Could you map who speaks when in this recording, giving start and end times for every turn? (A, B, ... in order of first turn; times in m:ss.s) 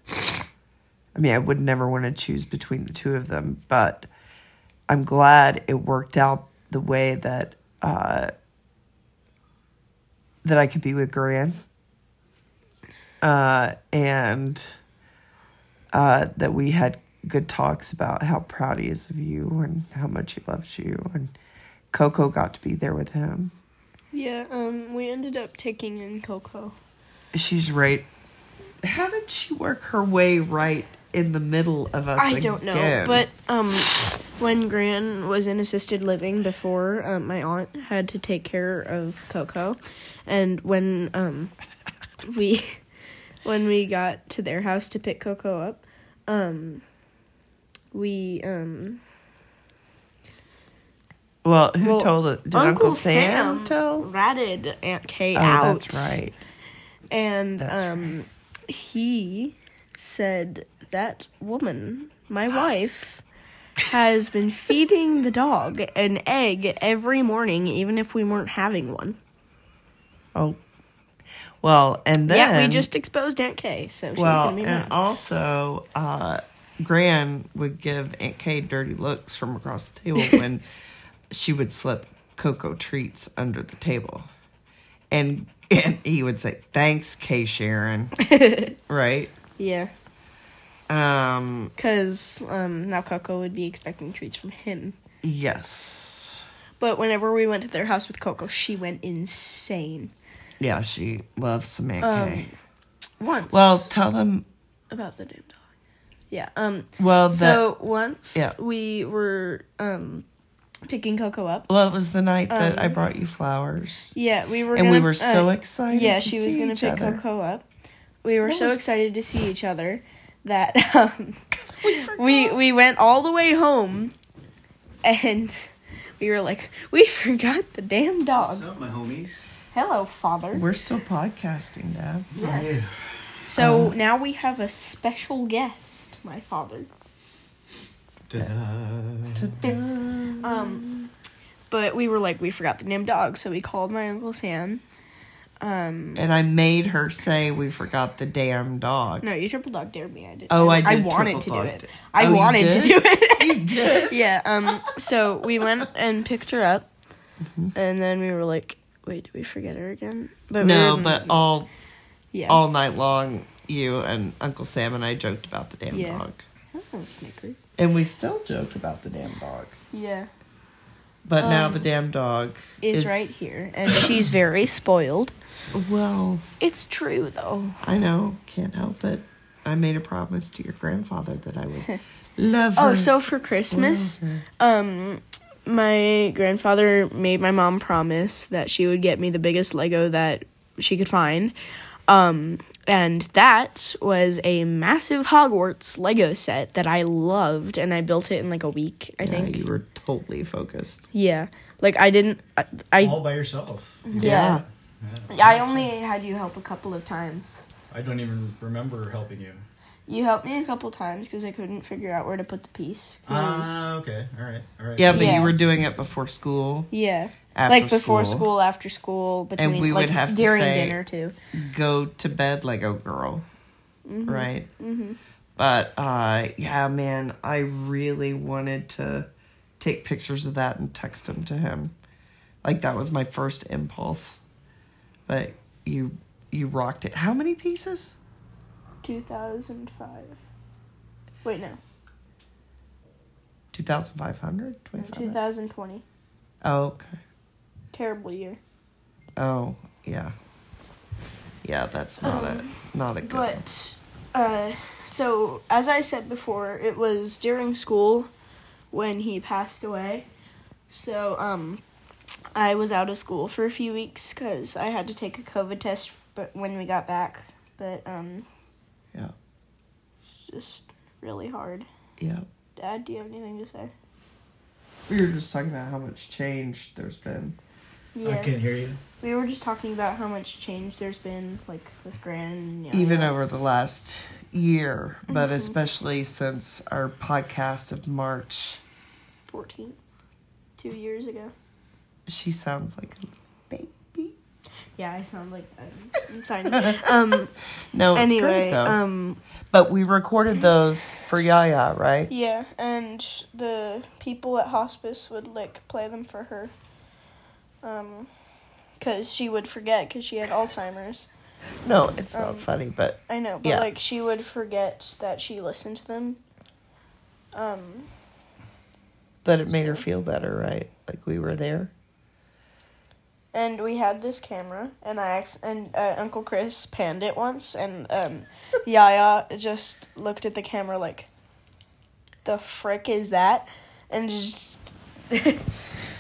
0:01.1-0:04.1 A
0:04.9-0:08.3 A
0:10.4-0:11.6 A
0:13.2-0:14.7 A
0:15.9-0:21.3 A
0:21.9-0:23.5 A
0:24.1-0:26.8 B
0:27.3-0:28.1 A
0:28.8-0:33.3 A
0:32.2-0:41.5 B
0:42.2-0:42.8 B
0:43.4-0:46.8 B
0:47.9-0:49.0 B
0:51.4-0:54.1 A
0:51.8-0:56.2 B
0:55.3-0:56.4 A
0:57.1-1:03.2 B
0:57.6-0:58.1 A
1:03.8-1:09.2 B
1:11.6-1:12.9 A
1:12.3-1:15.0 B
1:14.2-1:20.6 A
1:21.3-1:24.3 A
1:25.1-1:28.2 A
1:28.2-1:28.8 B
1:28.8-1:29.3 A
1:29.6-1:29.9 B
1:30.9-1:31.7 A
1:31.8-1:35.0 B
1:35.2-1:36.4 A
1:36.8-1:40.1 B
1:40.6-1:42.5 A
1:42.0-1:42.5 B
1:43.2-1:43.9 B
1:43.5-1:44.4 A
1:44.9-1:45.6 B
1:46.3-1:50.2 B
1:47.0-1:47.6 A
1:50.8-1:51.7 B
1:51.7-1:54.1 A
1:52.5-1:53.0 B
1:54.1-1:57.6 B
1:54.7-1:57.2 A
1:58.2-2:04.1 B
1:58.4-1:58.8 A
2:01.8-2:02.5 A
2:05.0-2:08.6 B
2:08.4-2:09.4 C
2:09.7-2:10.6 B
2:10.5-2:12.3 A
2:12.3-2:13.0 C
2:12.4-2:12.9 B
2:13.4-2:16.9 B
2:13.6-2:13.9 A
2:18.3-2:19.8 C
2:19.4-2:20.5 A
2:20.4-2:20.9 B
2:21.7-2:24.8 B
2:25.6-2:26.2 B
2:26.1-2:29.3 A
2:29.2-2:36.9 B
2:30.5-2:34.2 A
2:37.5-2:37.7 A
2:37.7-2:41.4 B
2:40.6-2:41.7 A
2:42.3-2:42.6 B
2:42.5-2:46.4 A
2:45.9-2:47.6 B
2:47.8-2:49.8 A
2:49.9-2:50.3 B
2:51.2-2:53.3 A
2:51.4-2:51.8 B
2:52.8-2:55.3 B
2:55.7-2:56.4 A
2:56.6-2:57.8 B
2:57.8-3:04.4 A
3:02.8-3:11.5 B
3:12.1-3:19.6 B
3:19.2-3:21.1 A
3:21.1-3:23.2 B
3:23.0-3:25.9 C
3:24.0-3:24.6 B
3:24.2-3:24.6 A
3:25.3-3:27.6 B
3:27.9-3:29.6 C
3:30.1-3:33.9 B
3:33.2-3:35.8 C
3:35.0-3:36.9 A
3:35.1-3:35.5 B
3:36.9-3:41.3 B
3:37.5-3:38.5 A
3:39.6-3:41.0 A
3:41.5-3:43.4 A
3:44.0-3:45.2 B
3:44.2-3:44.7 A
3:45.6-3:49.3 A
3:49.8-3:51.9 A
3:52.6-3:54.4 A
3:55.3-3:58.2 A
3:59.0-4:00.4 B
4:01.4-4:01.8 B
4:03.7-4:05.4 A
4:05.0-4:06.0 B
4:06.6-4:07.2 A
4:07.9-4:08.6 B
4:09.4-4:10.3 A
4:11.6-4:13.6 A
4:12.2-4:18.3 B
4:18.9-4:20.3 B
4:20.9-4:21.8 B
4:22.5-4:28.4 B
4:30.3-4:31.9 B
4:32.2-4:32.5 A
4:32.8-4:33.9 B
4:35.1-4:37.6 A
4:38.1-4:38.5 B
4:38.2-4:39.0 C
4:39.2-4:43.4 B
4:42.9-4:48.8 A
4:45.3-4:45.8 B
4:49.5-4:50.0 B
4:50.8-4:51.5 B
4:52.3-4:54.3 A
4:55.0-4:57.5 B
4:56.7-4:57.0 A
4:57.9-4:59.0 A
4:58.1-4:59.4 B
4:59.7-5:02.3 A
5:02.3-5:06.7 B
5:07.8-5:08.3 B
5:09.0-5:11.3 B
5:11.8-5:13.9 A
5:12.3-5:12.7 B
5:13.3-5:16.4 B
5:17.5-5:18.1 B
5:19.4-5:21.9 A
5:23.5-5:31.3 B
5:32.4-5:35.7 B